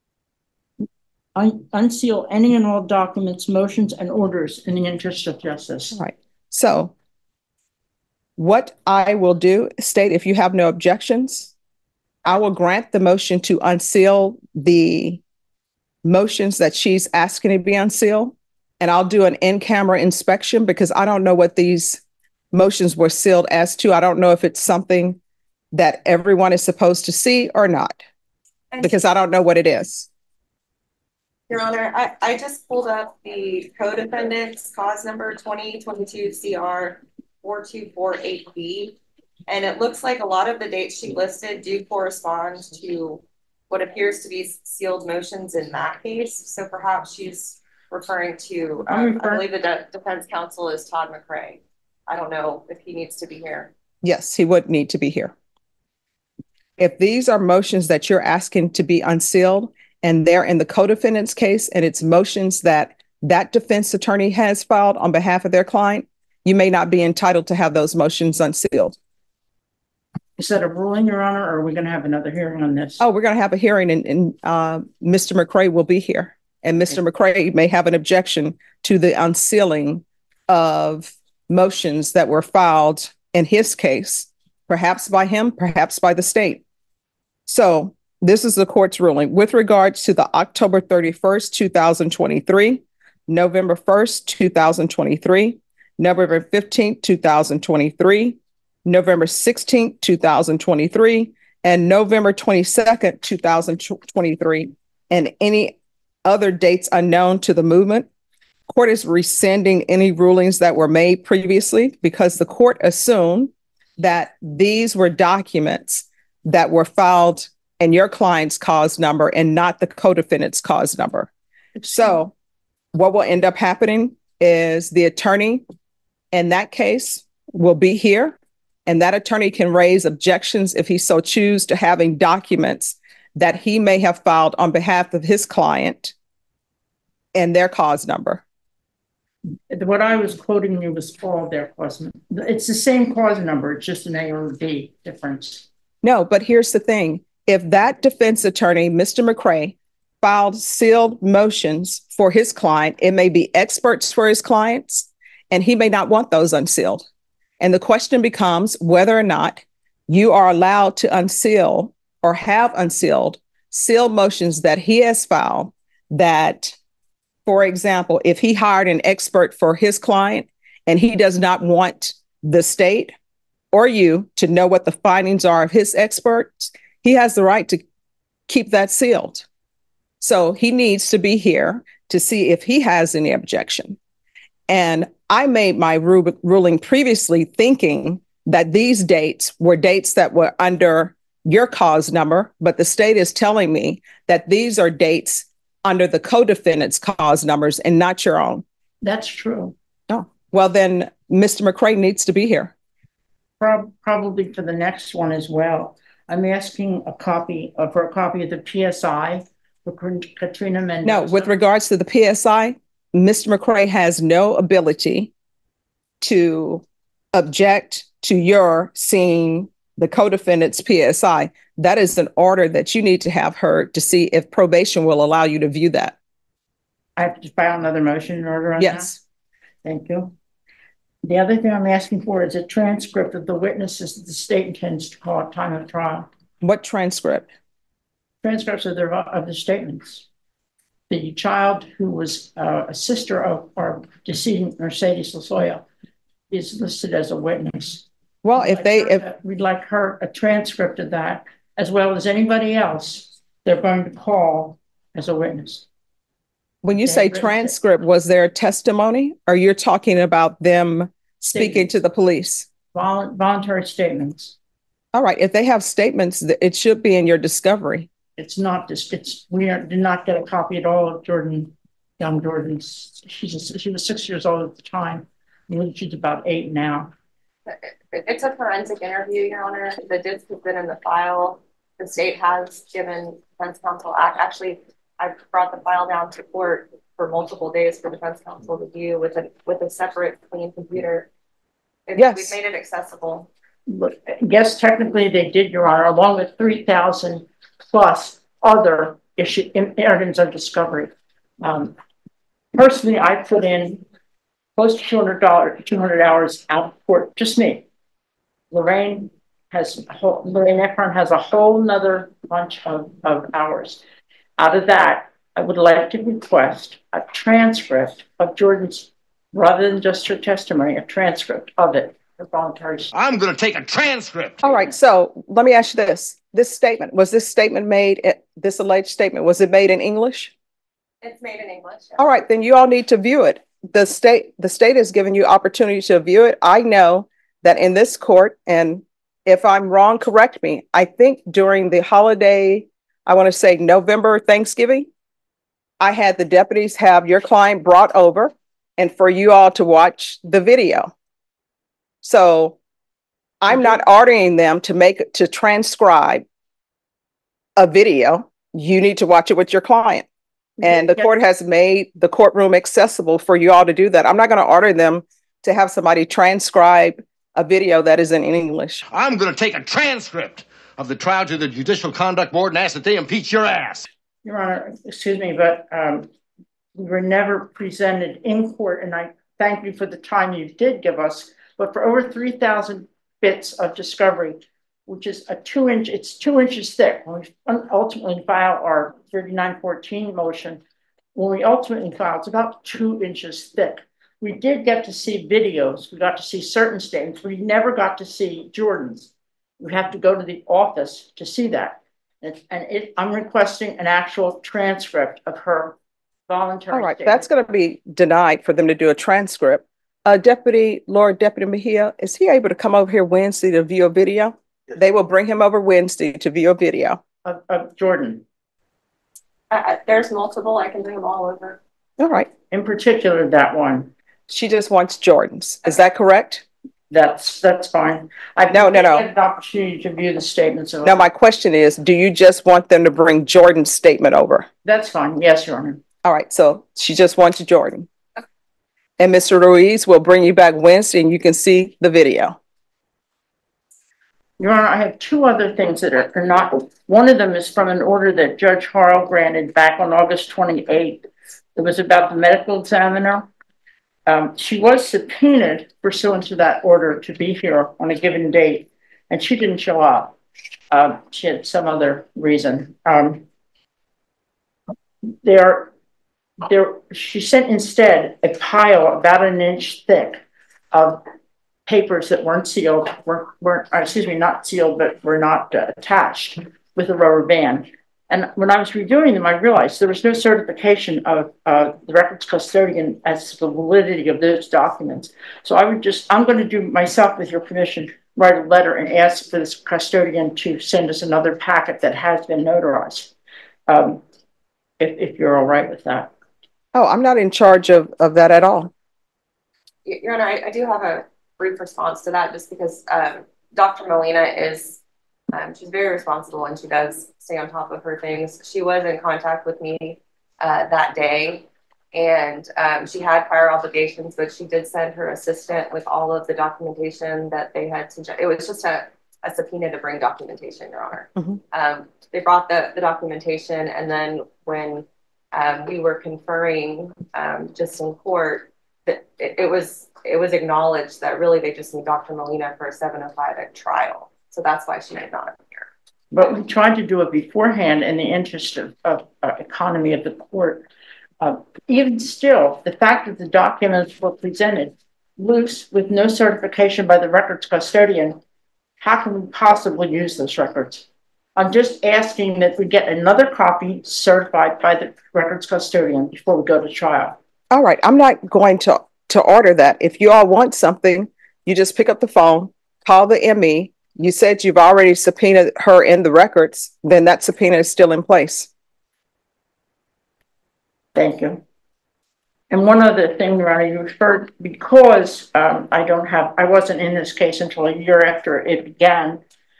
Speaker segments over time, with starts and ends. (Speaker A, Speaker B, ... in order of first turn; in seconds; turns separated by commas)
Speaker A: 1.4-6.0, Speaker B: 5.9-6.9, Speaker B: 8.4-11.5, Speaker B: 12.2-15.2, Speaker B: 16.0-22.0, Speaker B: 22.5-25.2, Speaker B: 25.7-28.0, Speaker C: 28.7-29.0, Speaker B: 28.8-30.1, Speaker C: 31.5-53.7, Speaker A: 48.9-49.5, Speaker B: 54.0-55.3, Speaker B: 56.8-69.0, Speaker A: 70.4-73.0, Speaker B: 73.0-86.6, Speaker B: 87.5-108.1, Speaker B: 108.7-121.3, Speaker B: 121.8-122.3, Speaker B: 122.9-125.6, Speaker B: 126.3-136.1, Speaker B: 137.3-138.4, Speaker A: 139.7-145.7, Speaker B: 146.0-157.1, Speaker B: 157.6-166.8, Speaker B: 167.5-173.1, Speaker B: 173.7-177.8, Speaker B: 178.5-179.5, Speaker B: 180.2-184.0, Speaker B: 184.7-198.6, Speaker A: 199.0-199.8, Speaker B: 200.1-202.7, Speaker A: 203.6-211.5, Speaker B: 211.0-215.3, Speaker B: 216.2-226.2, Speaker A: 227.2-229.2, Speaker B: 228.8-229.2, Speaker A: 229.8-230.3, Speaker A: 231.2-236.3, Speaker B: 236.6-237.5, Speaker A: 238.4-240.3, Speaker A: 241.1-245.9, Speaker A: 246.5-255.9, Speaker B: 248.4-249.2, Speaker B: 256.8-262.7, Speaker A: 257.0-257.8, Speaker A: 261.5-261.9, Speaker A: 262.9-264.6, Speaker B: 265.1-268.1, Speaker A: 268.4-277.1, Speaker C: 277.7-291.3, Speaker C: 292.1-293.5, Speaker B: 292.2-292.6, Speaker A: 293.9-301.9, Speaker A: 302.7-304.0, Speaker A: 304.8-307.9, Speaker A: 308.7-314.0, Speaker A: 314.6-323.1, Speaker D: 323.1-324.6, Speaker B: 324.6-330.5, Speaker C: 331.2-332.2, Speaker B: 332.2-345.1, Speaker B: 346.0-351.1, Speaker B: 352.2-352.8, Speaker B: 353.6-356.4, Speaker A: 353.7-354.0, Speaker B: 357.8-360.3, Speaker A: 360.8-361.3, Speaker B: 360.8-369.1, Speaker D: 369.1-374.1, Speaker A: 374.4-376.3, Speaker A: 376.9-390.8, Speaker A: 391.4-406.0, Speaker A: 406.5-407.5, Speaker B: 406.9-417.2, Speaker A: 417.4-418.4, Speaker C: 419.7-421.8, Speaker B: 422.2-422.5, Speaker A: 422.7-424.1, Speaker B: 424.5-426.6, Speaker A: 427.1-431.3, Speaker B: 428.7-429.2, Speaker B: 431.0-434.7, Speaker A: 434.9-436.0, Speaker B: 436.2-438.1, Speaker B: 439.2-442.6, Speaker A: 444.6-453.5, Speaker A: 454.3-460.4, Speaker A: 460.9-463.5, Speaker A: 465.4-465.9, Speaker A: 466.6-471.2, Speaker A: 471.9-493.3, Speaker A: 493.9-494.2, Speaker A: 495.0-496.3, Speaker B: 496.9-498.9, Speaker C: 500.1-505.0, Speaker C: 505.5-535.9, Speaker A: 536.3-540.9, Speaker A: 541.4-548.4, Speaker A: 549.0-551.0, Speaker A: 551.6-557.4, Speaker B: 557.7-568.7, Speaker A: 571.1-571.6, Speaker A: 572.7-579.4